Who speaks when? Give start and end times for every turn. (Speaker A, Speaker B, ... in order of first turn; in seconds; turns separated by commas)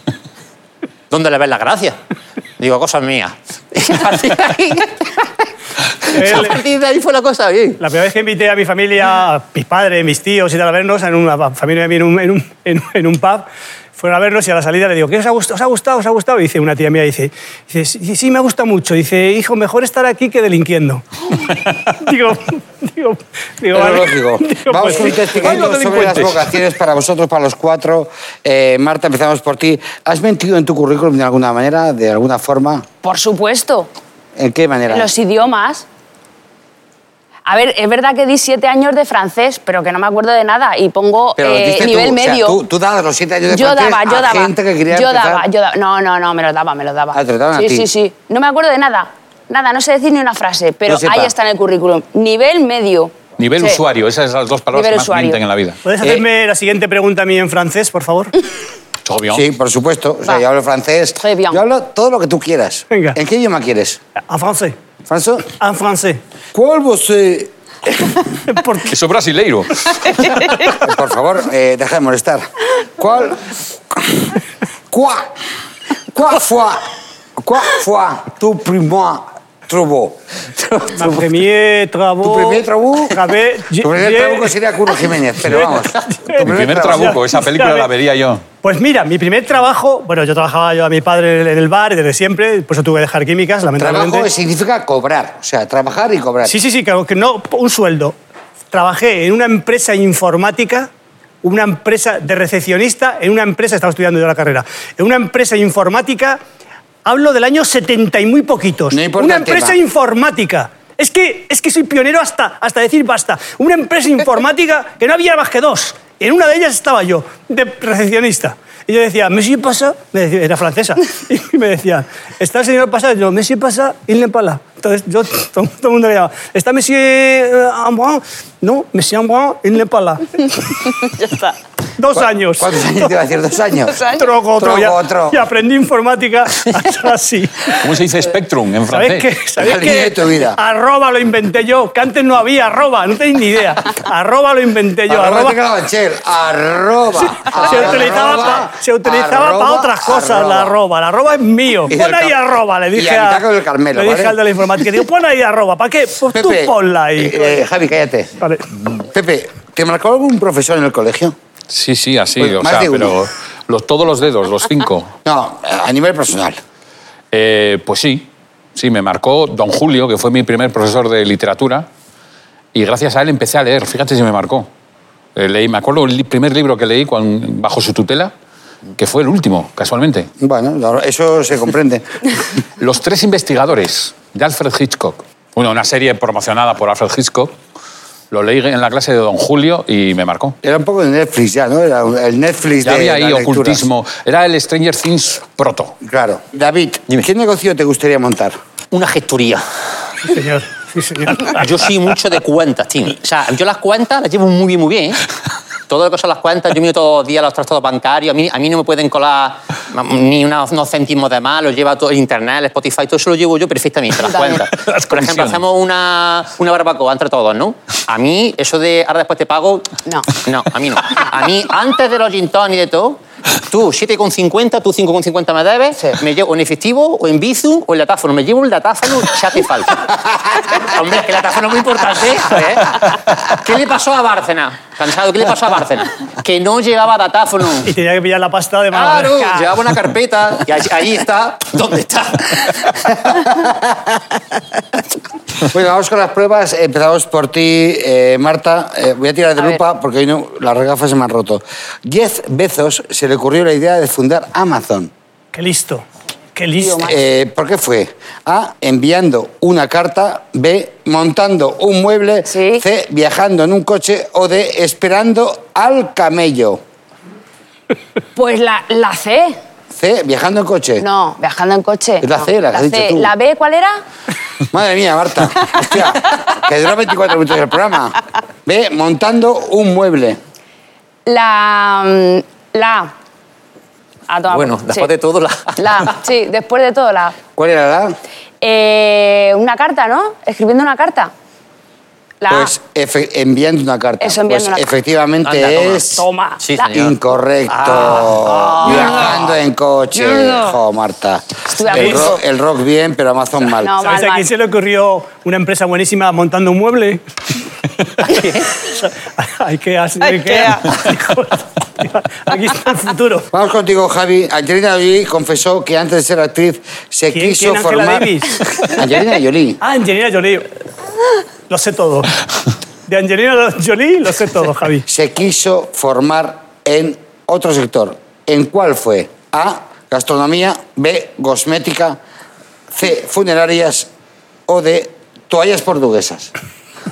Speaker A: 1.1-2.0, Speaker A: 2.6-5.5, Speaker A: 6.0-7.8, Speaker B: 6.1-6.6, Speaker B: 7.8-26.2, Speaker C: 23.7-32.9, Speaker D: 25.4-26.3, Speaker E: 33.0-33.9, Speaker C: 34.4-35.1, Speaker E: 34.9-35.9, Speaker E: 37.5-42.6, Speaker C: 41.4-45.5, Speaker E: 43.5-53.8, Speaker C: 47.1-47.9, Speaker C: 50.9-51.3, Speaker D: 53.4-55.8, Speaker E: 54.7-55.4, Speaker B: 55.8-58.3, Speaker D: 59.0-59.4, Speaker C: 59.3-64.0, Speaker E: 61.2-61.6, Speaker B: 62.9-63.2, Speaker B: 64.3-64.8, Speaker C: 65.1-65.5, Speaker B: 65.6-66.2, Speaker C: 66.5-68.3, Speaker B: 68.5-68.9, Speaker D: 68.9-70.7, Speaker C: 70.8-74.4, Speaker C: 74.9-75.3, Speaker C: 76.1-76.9, Speaker C: 77.4-80.2, Speaker A: 80.6-81.2, Speaker B: 81.0-84.5, Speaker C: 82.2-83.2, Speaker C: 83.8-87.2, Speaker B: 85.5-87.9, Speaker D: 86.4-88.4, Speaker B: 88.6-94.3, Speaker C: 93.8-96.6, Speaker B: 96.5-98.2, Speaker B: 98.7-100.9, Speaker B: 101.4-106.4, Speaker B: 107.0-131.2, Speaker C: 108.9-109.8, Speaker B: 132.0-133.1, Speaker C: 132.2-135.4, Speaker B: 134.1-138.0, Speaker D: 137.8-139.4, Speaker B: 138.9-145.6, Speaker C: 139.6-140.6, Speaker C: 145.1-150.8, Speaker B: 147.5-157.6, Speaker C: 151.9-152.4, Speaker C: 152.9-154.4, Speaker C: 156.3-158.3, Speaker B: 158.4-158.7, Speaker C: 158.9-161.3, Speaker D: 161.7-165.1, Speaker C: 162.4-163.2, Speaker C: 165.2-166.6, Speaker D: 167.3-171.9, Speaker D: 172.7-174.7, Speaker D: 175.4-178.3, Speaker D: 179.0-180.3, Speaker C: 180.4-182.2, Speaker D: 182.8-187.5, Speaker D: 188.3-190.6, Speaker C: 190.6-193.9, Speaker D: 192.8-196.0, Speaker C: 196.0-198.6, Speaker A: 198.9-199.7, Speaker B: 200.2-201.7, Speaker A: 201.4-205.2, Speaker A: 205.9-237.9, Speaker E: 214.3-214.7, Speaker D: 214.7-215.6, Speaker B: 237.8-239.7, Speaker A: 238.9-243.3, Speaker C: 243.3-244.0, Speaker C: 245.7-255.1, Speaker B: 255.5-256.1, Speaker B: 256.6-257.2, Speaker C: 256.8-266.8, Speaker E: 262.5-262.8, Speaker E: 268.4-269.6, Speaker C: 269.9-271.0, Speaker E: 271.0-274.0, Speaker C: 272.2-273.3, Speaker C: 274.7-280.4, Speaker E: 281.3-283.1, Speaker E: 284.3-285.1, Speaker A: 284.5-286.1, Speaker E: 285.8-287.4, Speaker C: 287.6-288.2, Speaker E: 288.6-291.3, Speaker E: 292.4-292.7, Speaker C: 292.5-296.3, Speaker E: 294.2-294.9, Speaker A: 295.4-299.6, Speaker E: 296.2-296.9, Speaker C: 296.9-304.0, Speaker E: 298.9-299.3, Speaker E: 300.1-300.8, Speaker E: 301.7-302.4, Speaker E: 303.8-304.5, Speaker B: 304.0-307.2, Speaker A: 308.3-308.7, Speaker B: 308.8-313.5, Speaker E: 310.3-310.9, Speaker C: 313.5-319.8, Speaker B: 317.3-318.7, Speaker B: 319.8-320.7, Speaker B: 321.7-322.4, Speaker B: 323.1-325.1, Speaker C: 325.1-332.2, Speaker C: 332.9-334.1, Speaker C: 334.7-336.5